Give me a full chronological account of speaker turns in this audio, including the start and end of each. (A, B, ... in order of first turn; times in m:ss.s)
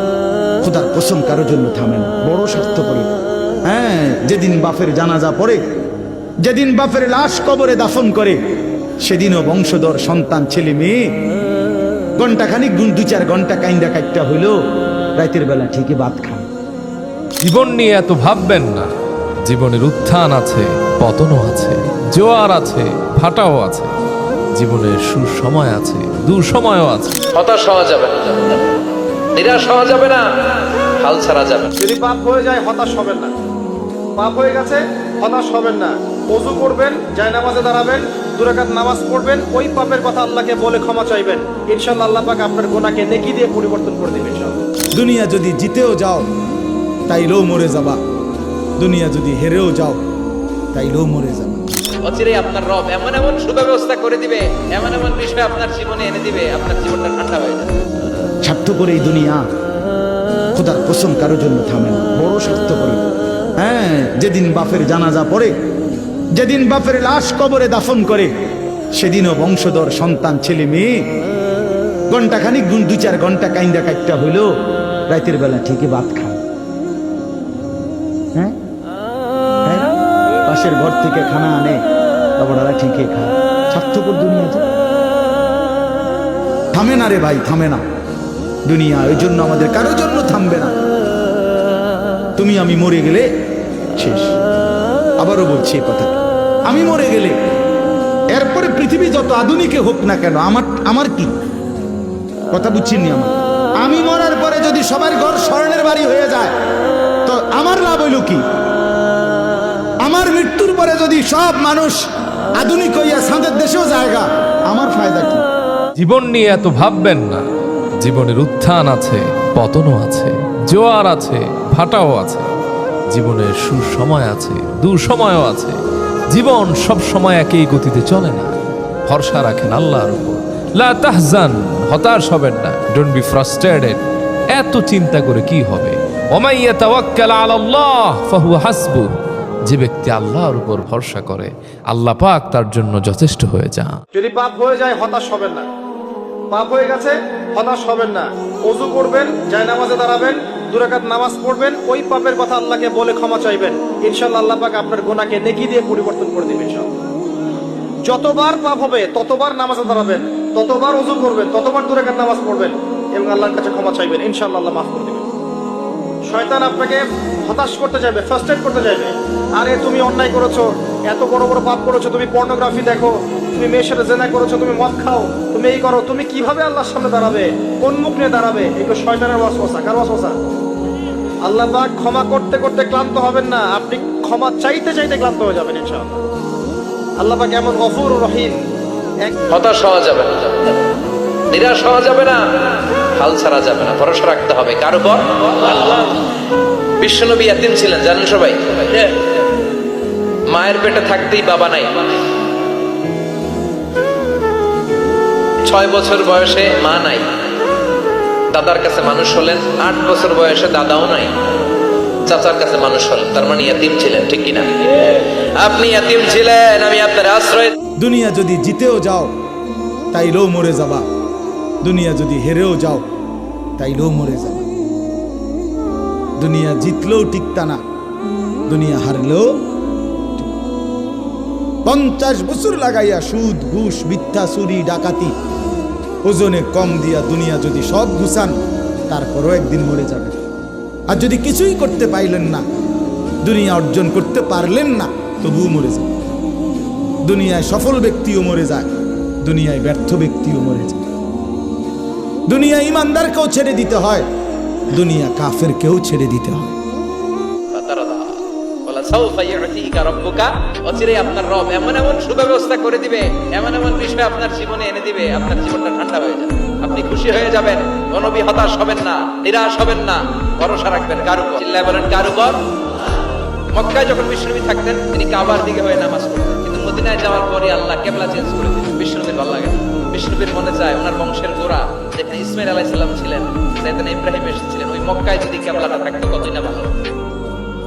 0:00.6-0:03.1 A
0:03.7-0:05.6 A
0:06.4-0:08.4 A
0:09.0-0:11.0 A
0:12.2-0:14.6 A
0:15.2-0:16.5 A
0:17.4-0:18.9 B
0:19.4-0:23.9 B
0:24.6-0:27.2 B
0:27.3-0:28.6 C
0:29.4-0:30.2 C
0:31.0-0:31.7 C
0:31.8-0:33.3 D
0:34.2-0:44.6 D
0:44.9-0:46.3 A
0:47.1-0:48.0 A
0:48.8-0:50.0 A
0:50.7-0:51.7 A
0:52.0-0:57.7 C
0:58.4-0:59.4 A
1:00.5-1:03.0 A
1:03.6-1:05.5 A
1:06.4-1:08.3 A
1:09.0-1:11.0 A
1:12.1-1:14.5 A
1:15.1-1:16.4 A
1:20.5-1:21.8 A
1:22.4-1:24.7 A
1:26.7-1:27.8 A
1:28.6-1:30.7 A
1:32.4-1:33.3 A
1:34.0-1:34.4 A
1:35.2-1:37.4 A
1:38.3-1:41.3 A
1:42.5-1:46.6 A
1:47.3-1:48.4 A
1:50.0-1:52.0 A
1:52.6-1:55.4 A
1:56.0-1:57.4 B
1:58.0-2:02.5 B
2:03.1-2:05.8 B
2:06.3-2:08.5 B
2:09.1-2:19.1 B
2:19.6-2:24.0 B
2:24.2-2:25.7 D
2:26.5-2:36.9 D
2:38.1-2:45.3 D
2:46.3-3:00.4 D
3:01.5-3:06.2 D
3:07.2-3:08.6 D
3:09.5-3:10.8 C
3:11.5-3:12.4 C
3:13.2-3:16.2 C
3:17.0-3:19.2 C
3:20.5-3:22.1 C
3:25.6-3:27.3 C
3:28.5-3:31.3 C
3:32.3-3:37.7 C
3:38.0-3:39.3 A
3:40.1-3:41.0 A
3:41.8-3:43.0 A
3:43.8-3:44.7 A
3:46.4-3:47.8 A
3:48.7-3:49.5 A
3:51.8-3:55.3 A
3:56.2-4:00.4 A
4:01.1-4:02.6 A
4:03.4-4:06.1 A
4:07.2-4:08.9 A
4:09.4-4:11.0 A
4:12.5-4:14.3 A
4:14.9-4:16.8 A
4:17.7-4:32.6 C
4:33.7-4:47.1 C